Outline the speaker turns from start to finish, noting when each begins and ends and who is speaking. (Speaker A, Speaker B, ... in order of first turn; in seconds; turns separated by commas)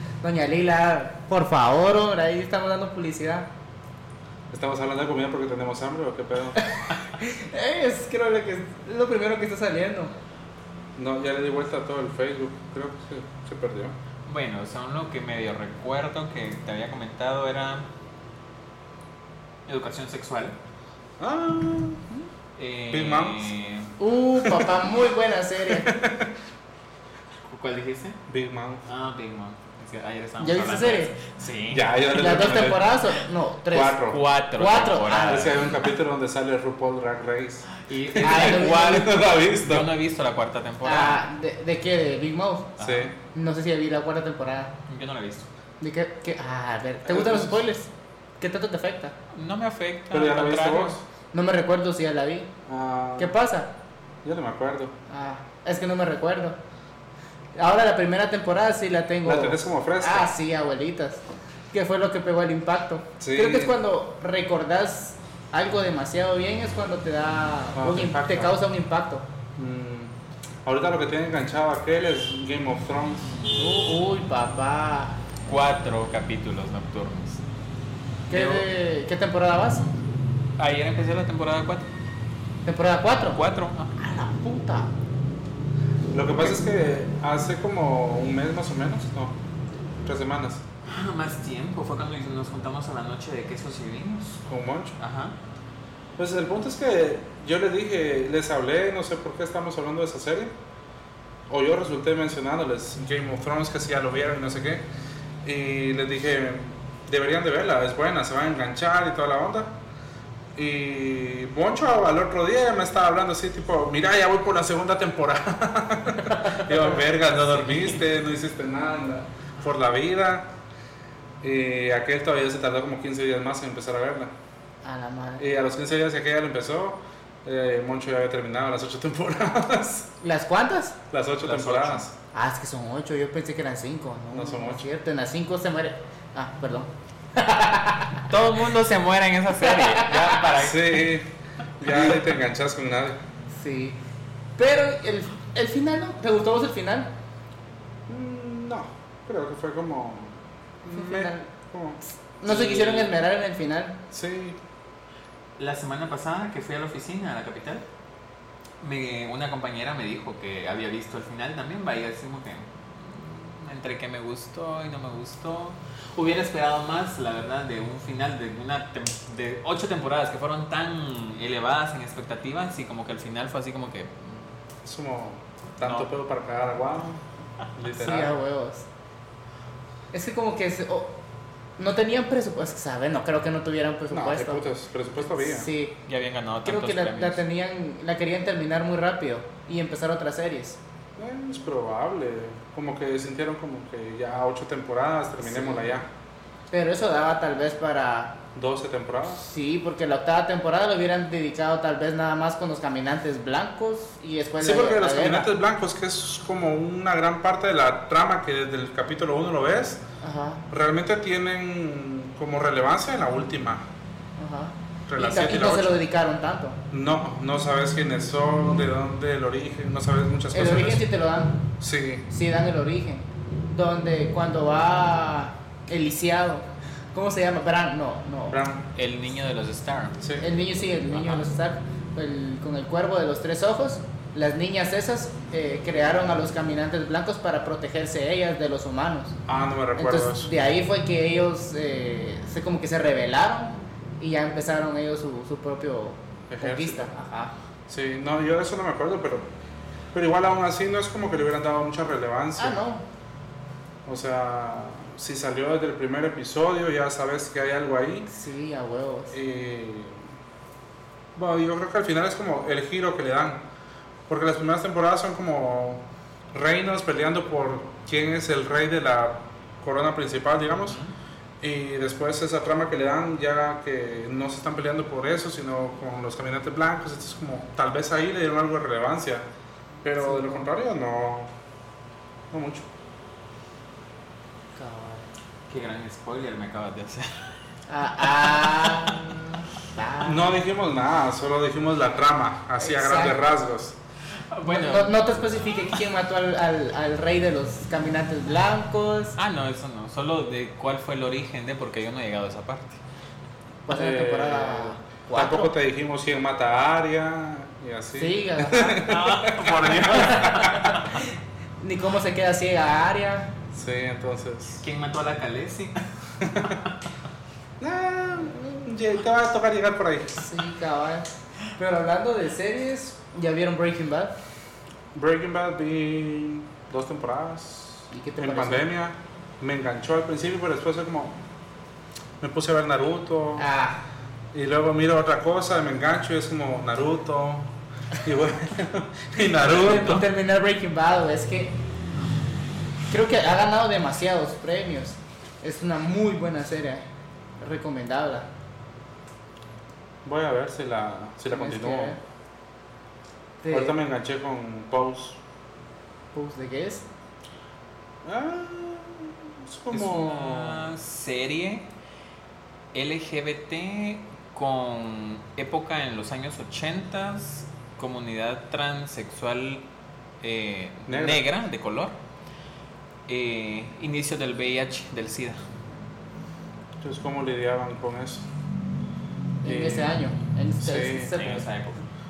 Speaker A: 0.2-3.5, Speaker B: 4.5-6.6, Speaker A: 6.6-10.1, Speaker B: 10.9-13.9, Speaker C: 14.3-17.9, Speaker C: 19.7-20.6, Speaker B: 21.2-22.0, Speaker C: 22.6-23.9, Speaker B: 22.9-23.5, Speaker A: 24.0-25.9, Speaker B: 25.6-26.3, Speaker C: 27.4-28.2, Speaker B: 28.3-28.9, Speaker C: 28.9-32.6, Speaker A: 30.4-31.1, Speaker B: 31.7-32.8, Speaker A: 32.1-35.6, Speaker B: 33.7-34.2, Speaker C: 34.1-35.7, Speaker B: 35.2-39.9, Speaker C: 37.7-41.2, Speaker A: 38.2-39.1, Speaker A: 40.8-42.8, Speaker C: 42.8-43.1, Speaker B: 42.8-43.1, Speaker A: 43.3-44.8, Speaker C: 44.9-45.5, Speaker A: 45.8-49.1, Speaker B: 47.0-47.6, Speaker C: 49.3-51.0, Speaker B: 50.1-51.0, Speaker A: 51.3-52.5, Speaker B: 52.6-53.3, Speaker A: 53.2-53.7, Speaker B: 54.2-54.9, Speaker A: 55.1-56.6, Speaker A: 57.5-69.2, Speaker B: 59.2-60.3, Speaker B: 63.2-63.8, Speaker B: 67.8-68.6, Speaker B: 69.6-70.1, Speaker B: 70.6-73.3, Speaker A: 73.5-75.2, Speaker C: 75.5-77.4, Speaker A: 78.3-79.8, Speaker C: 78.3-78.7, Speaker C: 80.6-81.9, Speaker A: 82.7-83.4, Speaker C: 83.3-83.9, Speaker A: 83.9-84.9, Speaker B: 86.1-89.4, Speaker B: 90.0-90.6, Speaker C: 90.8-94.4, Speaker B: 94.4-95.0, Speaker C: 95.0-95.4, Speaker B: 96.2-100.5, Speaker B: 101.5-104.9, Speaker B: 105.4-109.8, Speaker B: 110.5-120.5, Speaker C: 117.3-118.0, Speaker B: 121.4-124.3, Speaker A: 124.8-125.4, Speaker B: 125.4-130.1, Speaker A: 130.2-130.9, Speaker B: 131.1-132.1, Speaker C: 131.4-132.0, Speaker A: 132.3-138.3, Speaker B: 134.3-134.9, Speaker C: 138.3-141.1, Speaker A: 139.6-140.5, Speaker B: 140.6-143.2, Speaker A: 143.5-144.0, Speaker A: 144.6-147.1, Speaker B: 148.1-152.0, Speaker A: 150.9-151.5, Speaker A: 152.4-154.0, Speaker C: 152.4-153.1, Speaker B: 154.1-154.6, Speaker C: 155.6-157.8, Speaker C: 158.8-174.5, Speaker B: 174.8-177.2, Speaker C: 175.8-176.1, Speaker B: 177.8-178.4, Speaker A: 177.9-178.9, Speaker A: 180.1-181.1, Speaker A: 181.8-184.7, Speaker B: 184.1-185.7, Speaker A: 185.2-186.0, Speaker C: 186.1-187.4, Speaker A: 186.6-190.8, Speaker B: 191.2-196.1, Speaker A: 195.4-196.0, Speaker A: 196.7-198.4, Speaker B: 198.5-199.5, Speaker A: 199.3-205.5, Speaker B: 204.6-210.0, Speaker A: 210.2-210.6, Speaker B: 210.7-213.8, Speaker A: 214.4-216.8, Speaker B: 215.1-216.0, Speaker B: 216.9-221.0, Speaker A: 220.5-221.6, Speaker B: 221.8-222.2, Speaker A: 222.3-228.6, Speaker B: 228.5-228.9, Speaker C: 228.9-230.2, Speaker B: 230.2-230.5, Speaker A: 230.4-239.4, Speaker B: 239.5-240.5, Speaker A: 240.0-247.5, Speaker B: 246.5-247.1, Speaker B: 247.9-249.5, Speaker B: 250.1-252.8, Speaker A: 252.6-253.0, Speaker B: 254.1-258.3, Speaker A: 258.3-259.4, Speaker B: 259.3-260.2, Speaker B: 261.4-263.6, Speaker B: 264.3-271.0, Speaker C: 270.8-271.1, Speaker B: 271.6-279.5, Speaker B: 280.0-281.5, Speaker A: 280.2-280.7, Speaker B: 282.5-282.9, Speaker A: 284.8-285.3, Speaker C: 285.7-287.5, Speaker A: 287.9-290.5, Speaker C: 288.3-289.4, Speaker B: 290.2-294.0, Speaker A: 292.8-293.4, Speaker C: 294.5-295.2, Speaker A: 294.6-299.4, Speaker C: 299.4-303.0, Speaker A: 303.9-305.7, Speaker B: 303.9-311.0, Speaker A: 308.1-309.1, Speaker C: 309.0-311.2, Speaker A: 310.2-310.9, Speaker A: 311.8-313.5, Speaker B: 313.7-314.9, Speaker C: 314.8-317.0, Speaker B: 316.4-316.8, Speaker B: 317.8-320.6, Speaker A: 320.4-324.4, Speaker B: 325.1-331.4, Speaker A: 328.1-328.9, Speaker B: 332.4-333.6, Speaker A: 333.6-334.0, Speaker B: 334.5-340.2, Speaker A: 339.6-341.8, Speaker C: 339.8-340.2, Speaker A: 343.1-347.0, Speaker A: 347.6-348.5, Speaker B: 350.2-352.2, Speaker A: 351.5-352.2, Speaker A: 353.6-354.0, Speaker B: 353.7-355.4, Speaker A: 356.3-357.1, Speaker B: 358.2-360.9, Speaker C: 359.9-361.9, Speaker C: 362.9-369.8, Speaker C: 370.4-372.1, Speaker B: 371.1-371.4, Speaker C: 373.3-375.6, Speaker B: 377.0-378.5, Speaker A: 379.6-381.6, Speaker B: 379.6-380.2, Speaker B: 380.8-381.5, Speaker C: 381.3-382.0